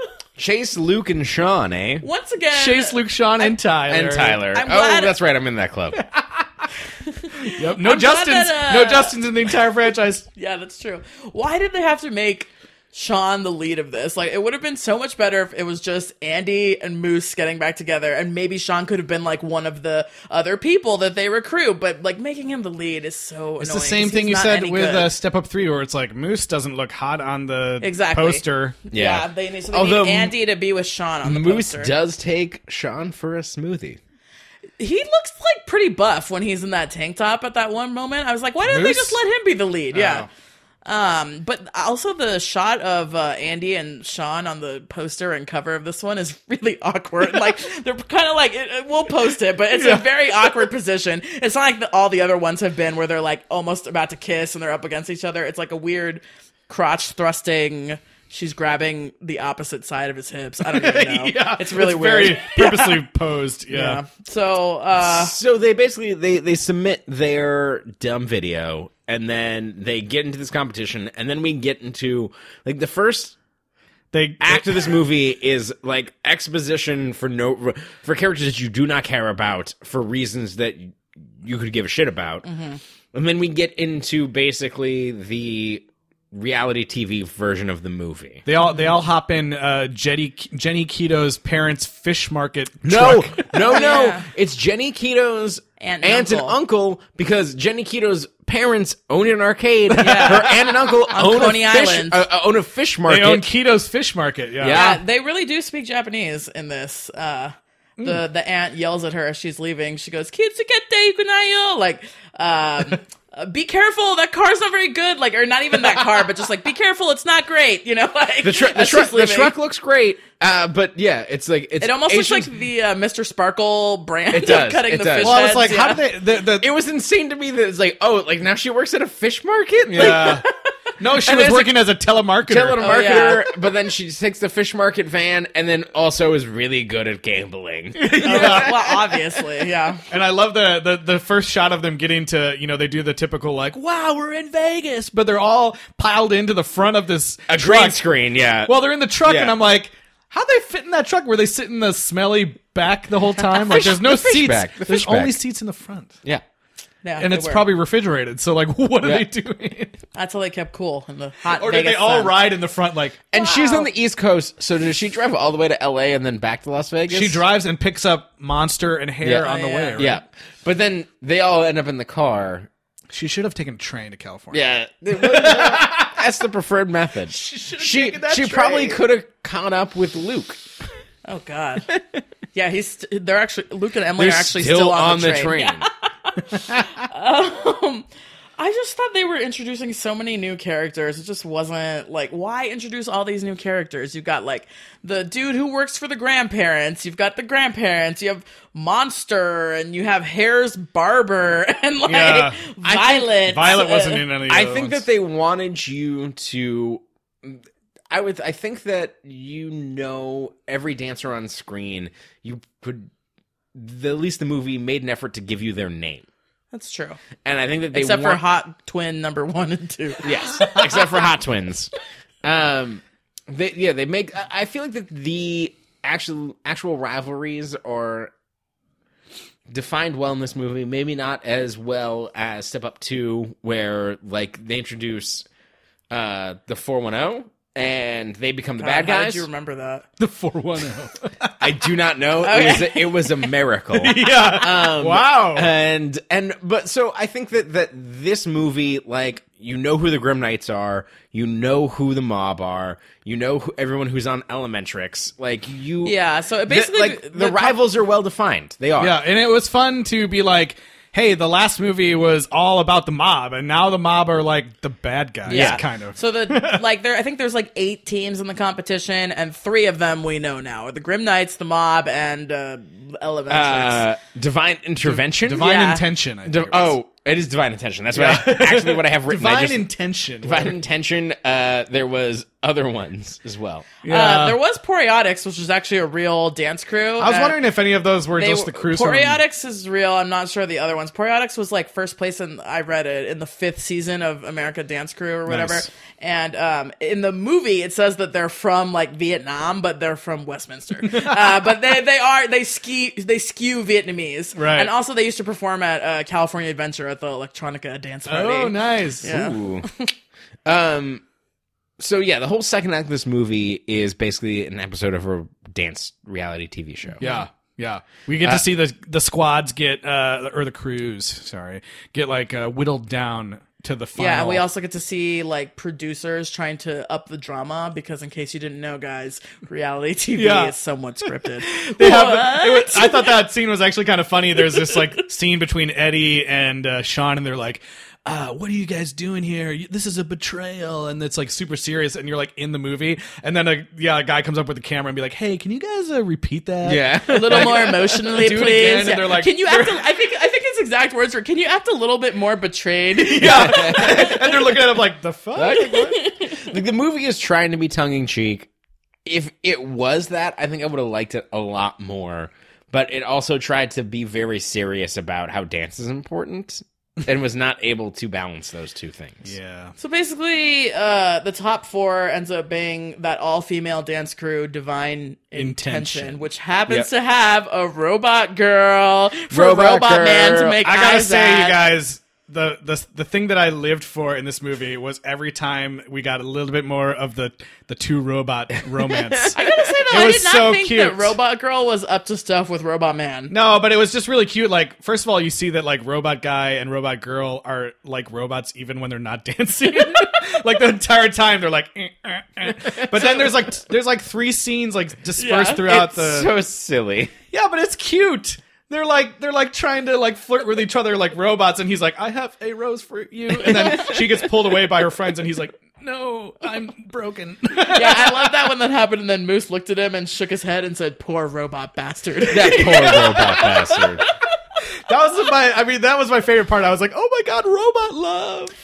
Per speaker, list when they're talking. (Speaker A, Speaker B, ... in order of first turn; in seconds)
Speaker A: 0.4-2.1, 3.9-6.0, 28.9-30.4, 31.2-34.0, 65.0-73.4, 74.4-82.5, 83.1-88.4, 92.8-103.5, 104.6-105.0, 118.4-122.5, 124.3-125.5, 126.6-130.4, 131.2-131.8, 132.5-138.8, 147.5-149.6, 153.5-155.4, 159.0-159.3, 163.3-167.4, 169.2-172.7, 174.5-180.6, 181.9-182.2, 184.2-185.9, 202.8-203.2, 204.5-213.1, 213.8-216.3, 217.4-218.4, 220.2-228.3, 229.7-235.5, 236.1-239.5, 241.6-259.2, 265.5-265.8, 273.5-275.8, 276.5-279.9, 280.4-283.9, 309.2-309.9, 310.7-311.2, 312.0-317.2, 346.8-348.2, 353.4-354.6, 355.6-356.0, 356.6-358.7, 359.2-369.5, 379.5-380.8, 403.0-403.4, 405.8-407.3, 413.6-414.3, 422.5-424.2
Speaker B: 2.0-3.5, 4.5-5.1, 7.1-9.2, 10.3-25.1, 27.8-31.9, 34.8-40.3, 40.9-63.0, 63.7-65.3, 82.4-82.8, 93.6-94.2, 95.8-96.5, 100.0-100.6, 101.1-102.2, 104.7-119.5, 121.8-126.0, 130.0-130.4, 132.8-133.5, 138.2-140.0, 157.0-157.7, 160.2-162.4, 163.3-163.8, 169.4-170.1, 181.2-181.9, 182.5-188.1, 188.6-204.2, 216.7-217.2, 217.9-220.7, 238.8-240.1, 242.4-243.1, 256.0-257.8, 265.5-274.1, 275.6-276.0, 284.1-287.6, 288.4-310.1, 317.2-317.5, 324.2-333.4, 347.3-354.5, 355.7-356.7, 370.0-381.8, 389.5-393.5, 405.4-405.9, 417.9-423.7
Speaker C: 2.5-4.4, 5.9-6.5, 7.4-10.3, 23.6-28.8, 38.6-39.2, 39.9-40.3, 49.7-50.6, 60.7-64.0, 74.1-75.0, 88.5-93.6, 99.9-101.1, 103.1-104.9, 125.2-126.7, 129.9-130.5, 131.0-133.3, 137.9-139.0, 140.1-148.0, 148.6-156.1, 157.2-160.0, 161.5-163.3, 167.1-170.2, 173.1-176.2, 177.3-179.0, 202.1-205.1, 240.2-241.5, 243.9-245.7, 259.0-266.8, 275.1-277.0, 278.1-280.8, 284.0-284.6, 287.2-289.4, 295.5-295.9, 301.0-301.7, 304.6-304.9, 308.3-309.3, 317.2-324.7, 330.4-330.7, 331.3-350.1, 353.2-356.2, 369.4-369.9, 375.6-376.4, 380.8-389.6, 390.1-391.4, 393.5-406.6, 407.5-418.6, 422.5-423.6, 425.1-428.7